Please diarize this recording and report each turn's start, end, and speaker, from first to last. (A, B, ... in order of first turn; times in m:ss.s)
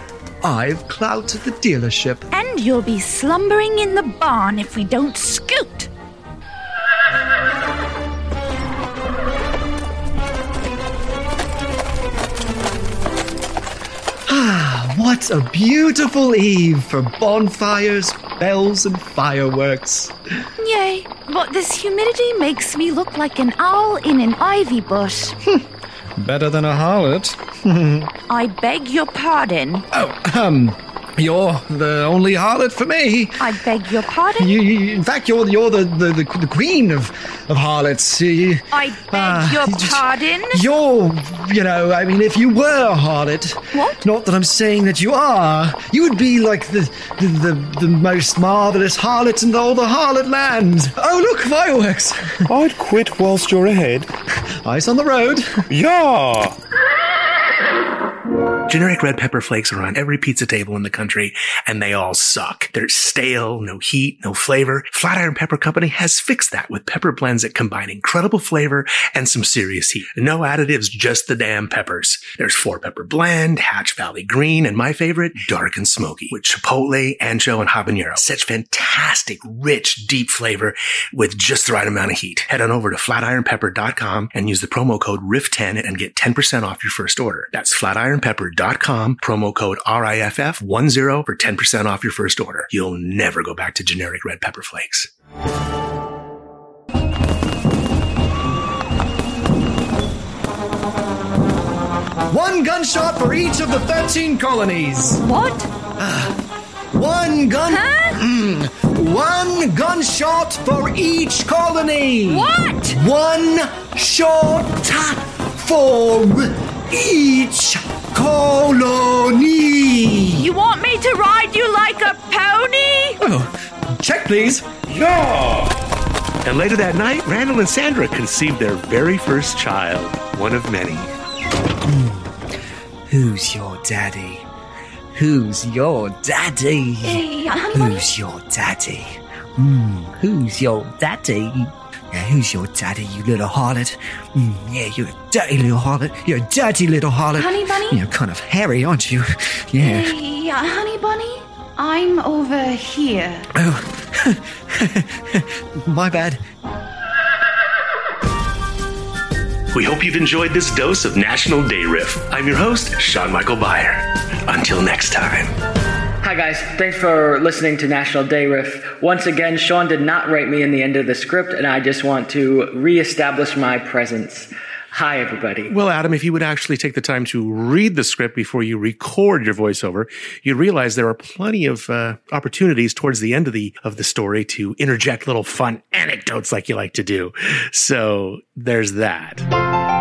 0:00.4-0:02.3 A
0:02.3-0:05.9 B
0:14.3-0:20.1 A
0:20.6-0:25.4 B
0:26.2-0:28.1 A
0:28.3-0:29.9 B
0:29.9-0:33.5 A
0:33.4-0:34.6 B
0:34.4-0:52.5 A
0:38.7-0:40.6 B
0:43.7-0:44.1 B
0:52.5-0:54.1 C
0:54.6-0:55.4 A
0:55.7-0:56.6 C
0:58.7-1:35.1 D
1:42.3-1:45.2 A
1:45.2-1:45.7 B
1:46.0-1:46.4 A
1:46.9-2:00.5 A
1:47.7-1:48.2 B
1:52.3-1:53.0 B
2:00.3-2:03.2 B
2:03.2-2:04.6 A
2:04.9-2:05.7 C
2:06.4-2:11.1 D
2:11.9-2:12.3 E
2:13.1-2:14.4 E
2:15.2-2:29.0 E
2:17.0-2:18.1 B
2:27.4-2:28.0 B
2:28.1-2:28.4 A
2:29.7-2:30.1 E
2:29.8-2:33.5 B
2:33.6-2:35.1 A
2:35.8-2:36.4 A
2:39.7-2:45.5 D
2:46.2-2:55.7 F
2:55.7-3:09.4 D